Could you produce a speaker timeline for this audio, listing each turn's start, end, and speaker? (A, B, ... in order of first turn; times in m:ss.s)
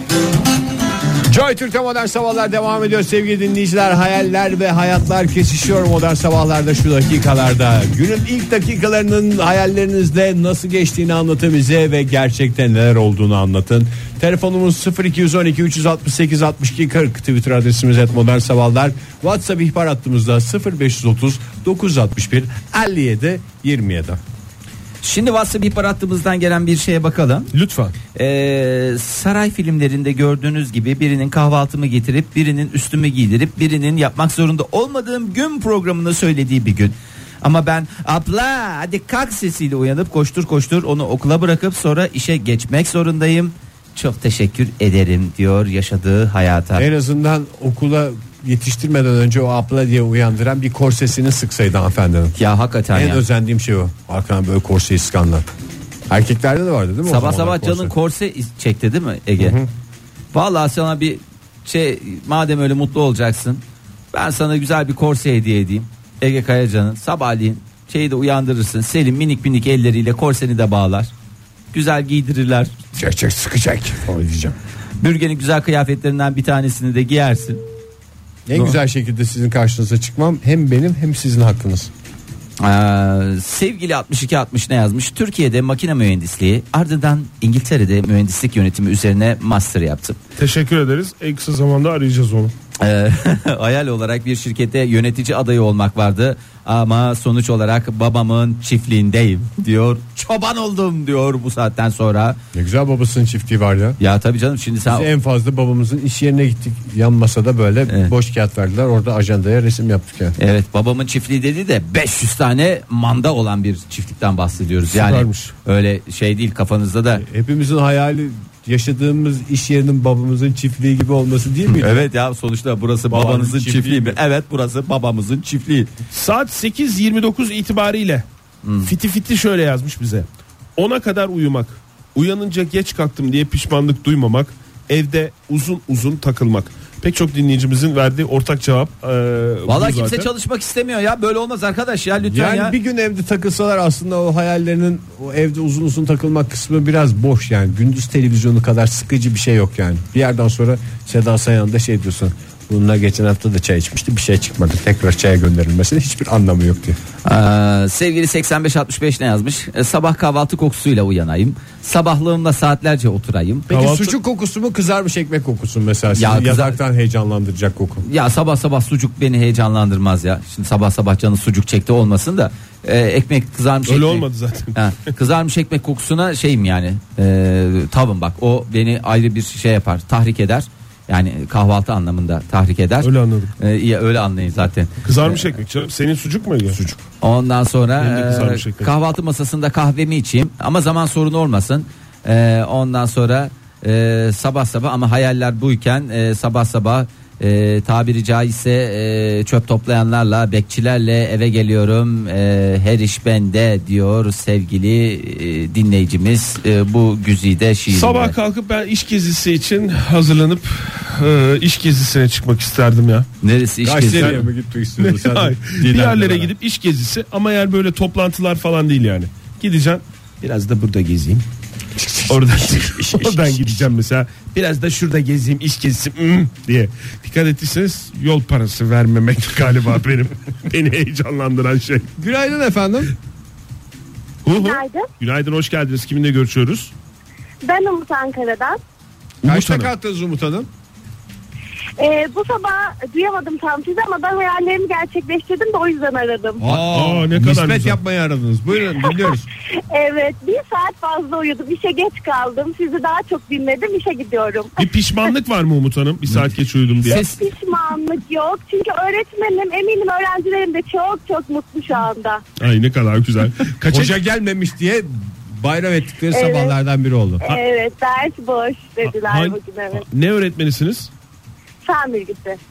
0:01.3-0:24.2 A
0:25.0-0:27.5 B
0:27.5-0:27.9 C
0:28.1-0:46.9 B
0:46.8-0:52.3 A
0:52.4-0:53.2 B
0:52.9-0:55.5 A
0:56.1-0:57.9 A
0:57.1-0:59.6 B
0:59.4-0:59.7 A
1:00.3-1:11.1 B
1:11.7-1:12.8 B
1:12.9-1:14.6 A
1:15.0-1:17.6 B
1:18.5-1:21.9 A
1:22.6-1:30.2 B
1:30.4-1:32.5 C
1:32.8-1:42.4 B
1:42.5-1:44.0 A
1:44.0-1:45.1 B
1:44.9-1:50.4 A
1:50.4-1:57.2 B
1:54.9-1:55.5 C
1:57.2-2:02.0 A
2:01.8-2:05.9 B
2:03.1-2:04.2 A
2:06.1-2:08.2 C
2:08.6-2:08.9 B
2:08.8-2:20.3 C
2:19.7-2:22.8 B
2:22.2-2:37.0 A
2:37.2-2:43.7 B
2:43.7-2:48.0 A
2:43.7-2:44.1 C
2:46.1-2:46.8 B
2:48.0-3:05.5 B
2:53.9-2:54.7 C
3:03.0-3:03.5 C
3:05.0-3:06.8 C
3:07.2-3:28.3 B
3:08.0-3:08.9 C
3:27.9-3:33.3 C
3:33.4-3:34.5 B
3:33.8-3:36.5 A
3:35.0-3:41.4 C
3:42.0-3:43.9 A
3:42.3-3:52.1 C
3:52.2-3:53.1 A
3:54.4-3:56.9 C
3:54.5-3:55.1 D
3:57.6-3:58.8 D
3:59.4-3:59.9 C
3:59.4-4:00.7 A
4:02.0-4:06.6 D
4:06.6-4:09.5 A
4:06.6-4:08.0 C
4:09.0-4:09.3 D
4:09.9-4:14.8 D
4:14.8-4:17.2 C
4:17.0-4:22.4 D
4:17.1-4:17.4 B
4:22.6-4:24.2 C
4:23.9-4:27.4 A
4:26.3-4:26.7 D
4:27.4-4:30.0 D
4:29.0-4:31.1 C
4:31.8-4:32.6 D